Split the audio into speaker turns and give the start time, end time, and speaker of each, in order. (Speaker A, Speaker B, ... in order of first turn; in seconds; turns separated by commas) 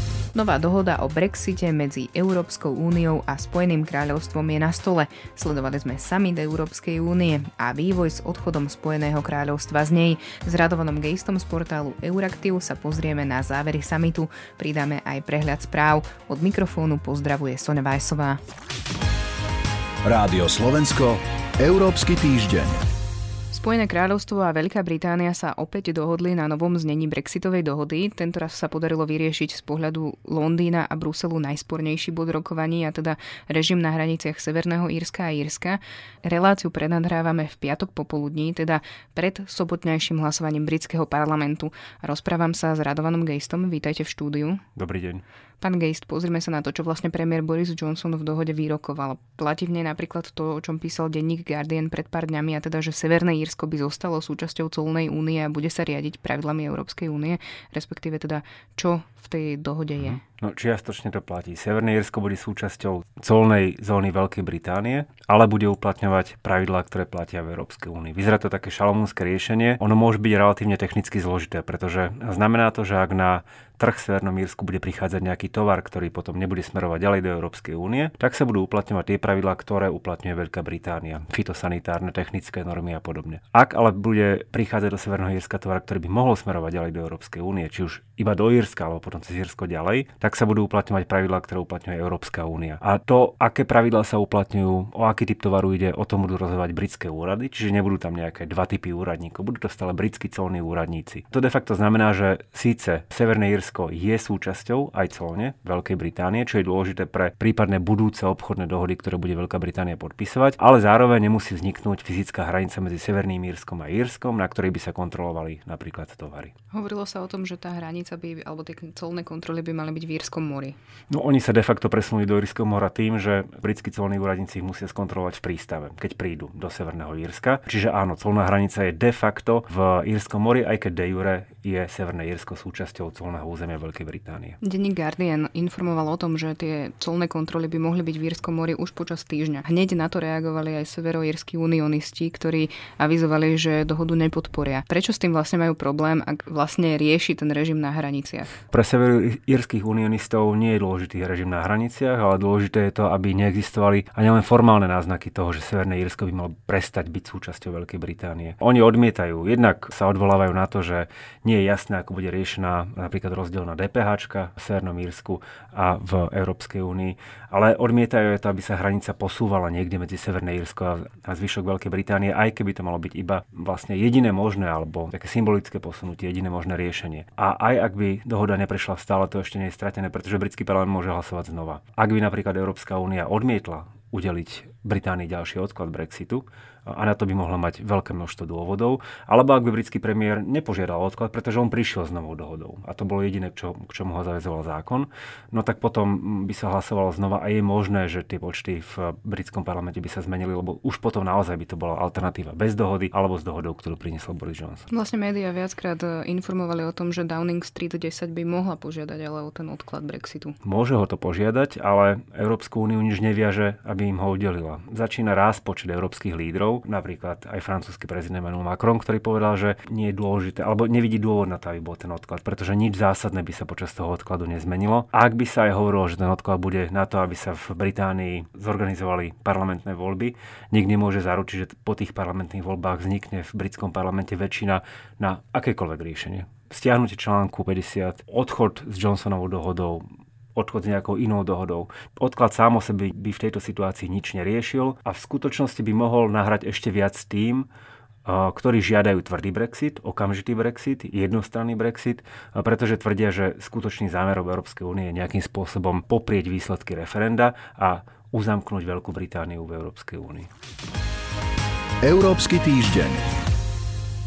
Speaker A: 0.3-18.4, Speaker B: 20.1-22.8, Speaker A: 23.5-44.6, Speaker C: 44.8-45.2, Speaker A: 45.6-60.2, Speaker C: 60.0-116.5, Speaker A: 116.7-120.8, Speaker C: 121.1-134.6, Speaker A: 134.6-148.5, Speaker C: 148.7-204.9, Speaker A: 204.9-210.5, Speaker C: 210.6-240.0, Speaker C: 240.6-247.7, Speaker C: 248.2-260.5, Speaker B: 262.0-263.2